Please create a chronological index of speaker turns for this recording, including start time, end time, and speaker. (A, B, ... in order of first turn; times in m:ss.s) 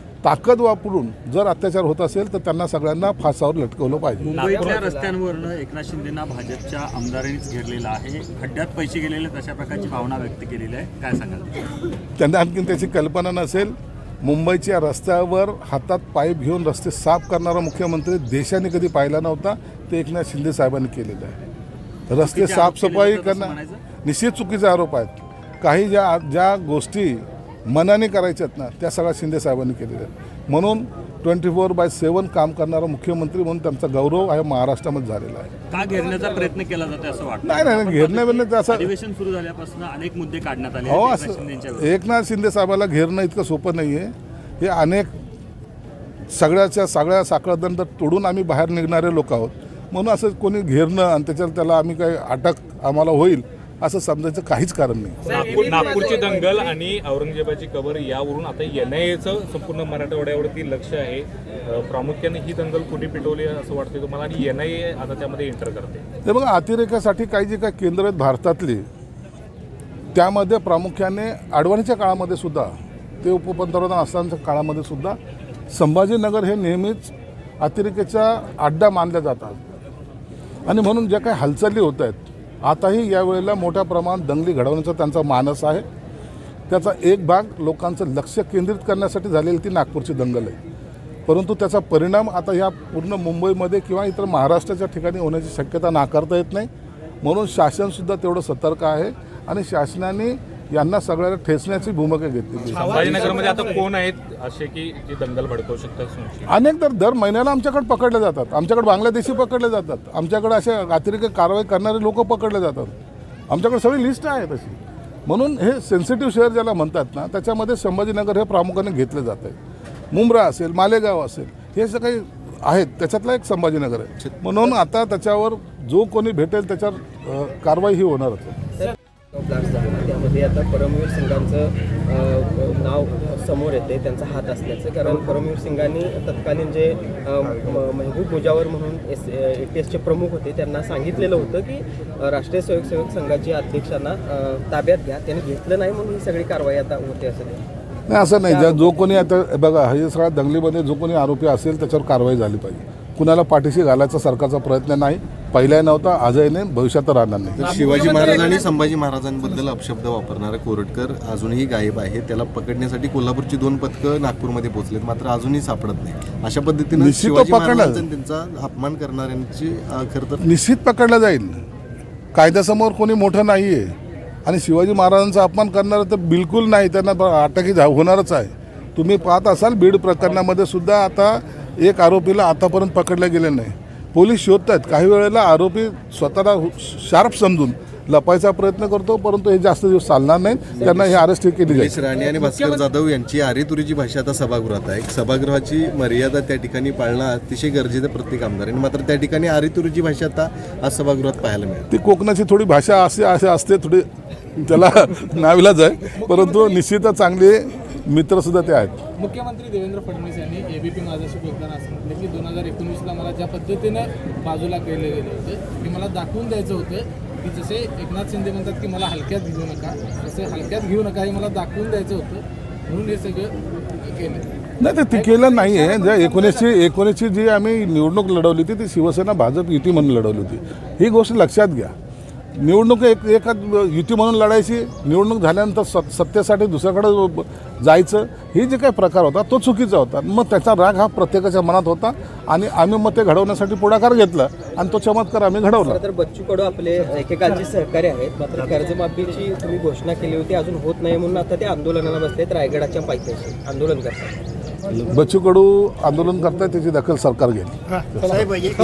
0:00.2-0:04.4 A
0:04.2-0:11.6 B
0:04.3-0:05.5 C
0:04.6-0:04.8 D
0:12.2-0:21.4 A
0:22.1-0:35.5 A
0:22.2-0:23.8 B
0:35.7-0:41.9 B
0:37.4-0:38.9 A
0:40.8-0:45.1 A
0:46.3-0:55.8 A
0:55.2-0:56.8 C
0:55.2-1:06.0 D
1:06.2-1:08.8 A
1:10.1-1:15.2 A
1:15.7-1:19.6 A
1:20.6-1:25.8 A
1:26.7-1:30.6 A
1:31.3-1:36.7 A
1:37.2-1:43.2 A
1:42.7-1:46.5 D
1:43.0-1:43.7 E
1:46.5-1:53.0 A
1:53.5-1:59.6 A
2:00.1-2:08.6 A
2:08.8-2:27.6 C
2:28.1-2:37.9 A
2:28.4-2:29.1 C
2:37.6-2:50.5 F
2:37.7-2:38.7 E
2:47.0-2:48.1 A
2:50.4-2:51.6 A
2:52.3-3:12.0 A
3:10.8-3:21.9 F
3:12.3-3:12.5 E
3:21.9-3:29.0 A
3:26.1-3:26.8 E
3:29.2-3:44.5 E
3:44.8-3:52.0 A
3:45.1-3:46.8 E
3:52.6-4:06.0 A
4:05.8-4:14.4 C
4:14.9-4:18.7 A